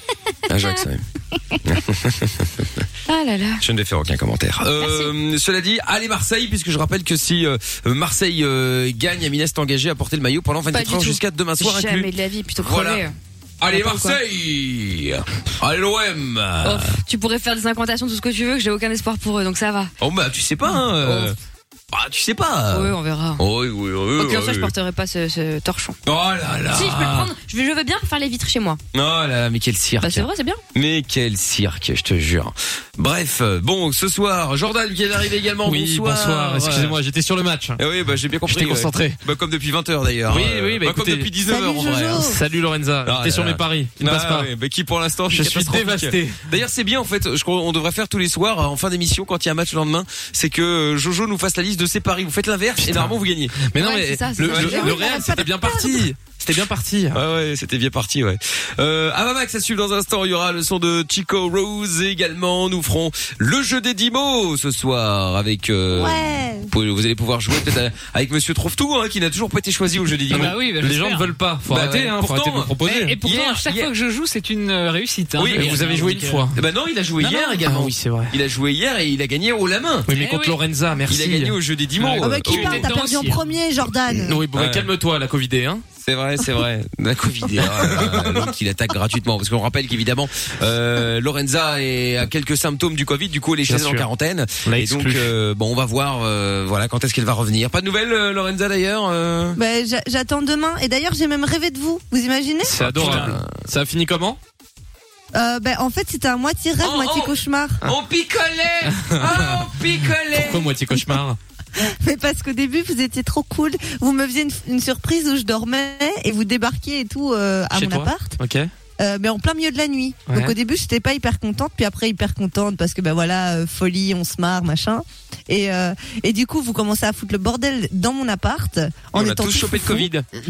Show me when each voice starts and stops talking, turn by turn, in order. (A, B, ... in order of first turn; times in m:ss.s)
0:00.5-0:01.0 A
0:01.6-0:02.8 A
0:03.1-0:03.6 B
0:03.6-0:13.0 A
0:04.7-0:05.1 B
0:10.7-0:13.1 B
0:13.6-0:17.0 A
0:13.7-0:14.2 B
0:16.6-0:19.9 B
0:20.0-0:21.4 A
0:21.0-0:21.3 B
0:21.9-0:24.7 A
0:22.7-0:23.4 B
0:24.2-0:26.0 B
0:26.0-0:27.3 A
0:26.7-0:28.8 B
0:28.9-0:37.0 A
0:30.0-0:30.6 B
0:35.7-0:37.8 C
0:37.8-0:42.3 A
0:38.5-0:39.2 C
0:40.3-0:41.3 C
0:41.4-0:42.4 D
0:42.2-0:44.5 C
0:43.0-0:55.0 A
0:45.3-0:46.4 C
0:52.8-0:53.2 C
0:53.8-0:55.0 B
0:54.4-0:57.2 C
0:54.6-0:56.1 D
0:57.1-1:10.6 A
1:05.9-1:06.7 D
1:10.3-1:11.4 E
1:10.3-1:13.2 C
1:11.7-1:13.9 A
1:12.8-1:16.5 E
1:15.4-1:20.1 A
1:15.5-1:16.6 C
1:17.2-1:18.3 C
1:20.1-1:22.8 C
1:20.1-1:20.6 E
1:21.1-1:22.9 A
1:22.0-1:23.4 E
1:22.1-1:24.4 D
1:24.2-1:25.9 C
1:24.5-1:24.9 A
1:26.0-1:39.6 A
1:27.8-1:28.5 C
1:33.7-1:34.1 C
1:34.6-1:35.3 C
1:39.6-1:43.2 D
1:42.6-1:44.4 C
1:42.8-1:43.5 A
1:45.3-1:47.9 D
1:46.8-1:50.8 A
1:49.0-1:49.6 C
1:50.3-1:51.4 C
1:51.8-1:58.4 D
1:57.7-1:58.7 C
1:59.0-2:10.1 D
2:00.3-2:00.6 C
2:09.1-2:10.1 A
2:09.8-2:10.3 C